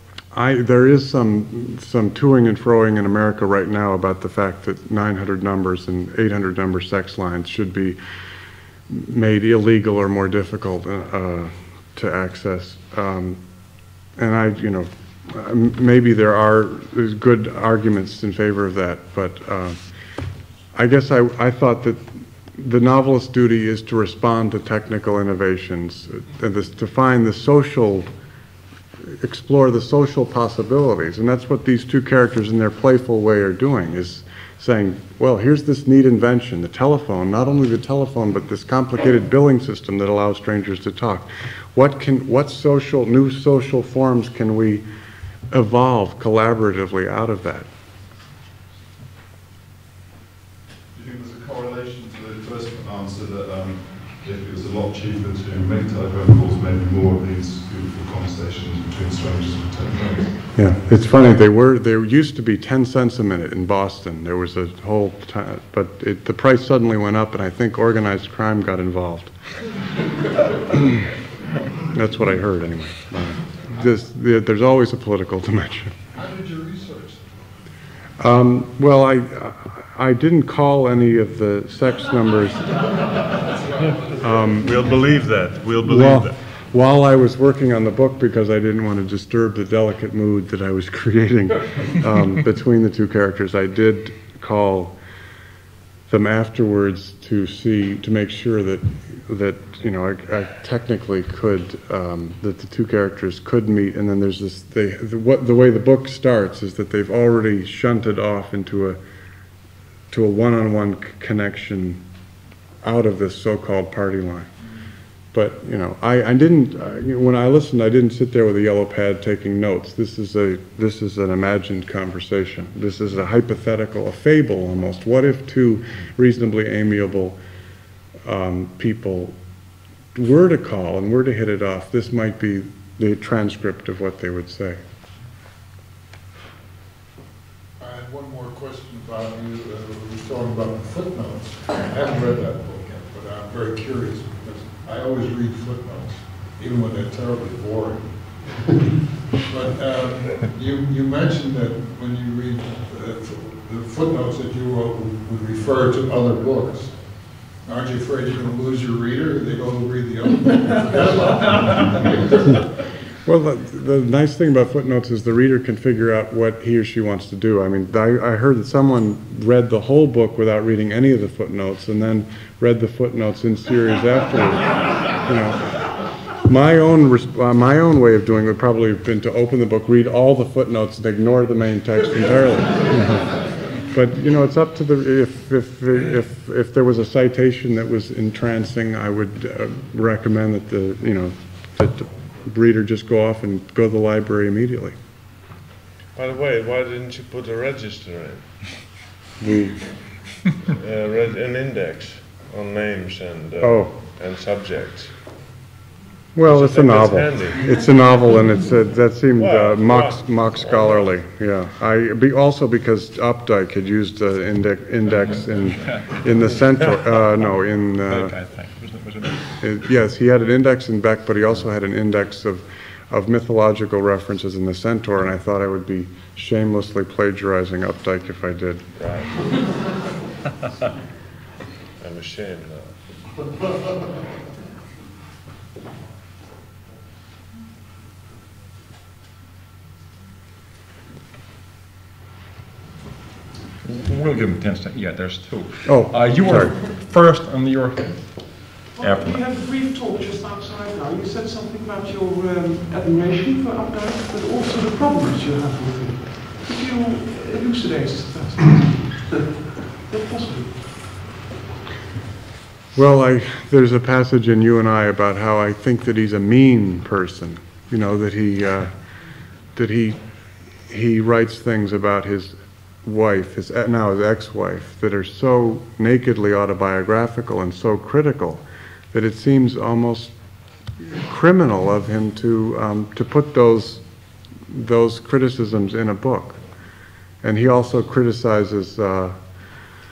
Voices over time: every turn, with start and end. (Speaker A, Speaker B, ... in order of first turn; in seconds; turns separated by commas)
Speaker A: 0.3-8.0, Speaker A: 8.9-13.4, Speaker A: 14.2-19.8, Speaker A: 20.7-28.1, Speaker A: 29.0-44.8, Speaker A: 45.5-47.7, Speaker B: 50.9-60.5, Speaker A: 60.5-69.4, Speaker A: 70.7-71.1, Speaker A: 71.9-76.0, Speaker C: 76.2-77.5, Speaker A: 78.2-82.6, Speaker C: 83.5-84.2, Speaker A: 84.2-84.8, Speaker D: 84.6-86.4, Speaker A: 85.8-95.0, Speaker A: 96.1-109.0, Speaker A: 110.1-112.0, Speaker A: 112.8-114.5, Speaker A: 115.3-127.4, Speaker A: 128.2-129.4, Speaker A: 130.1-134.8, Speaker C: 137.8-148.7, Speaker C: 149.4-162.7, Speaker A: 163.2-175.7, Speaker A: 176.4-195.0, Speaker D: 196.2-198.7, Speaker A: 199.4-199.9, Speaker D: 200.7-205.2, Speaker A: 203.6-203.9, Speaker A: 206.3-218.4, Speaker D: 206.4-207.6, Speaker D: 209.4-211.1, Speaker E: 215.3-216.4, Speaker D: 216.5-217.0, Speaker E: 217.3-219.7, Speaker A: 219.6-228.9, Speaker D: 229.0-229.5, Speaker D: 232.0-233.0, Speaker E: 243.8-249.4, Speaker A: 245.8-246.8, Speaker F: 248.9-261.2, Speaker A: 262.9-268.9, Speaker A: 269.7-270.2, Speaker A: 270.9-280.4, Speaker A: 281.1-284.0, Speaker A: 284.7-286.6, Speaker A: 287.4-289.4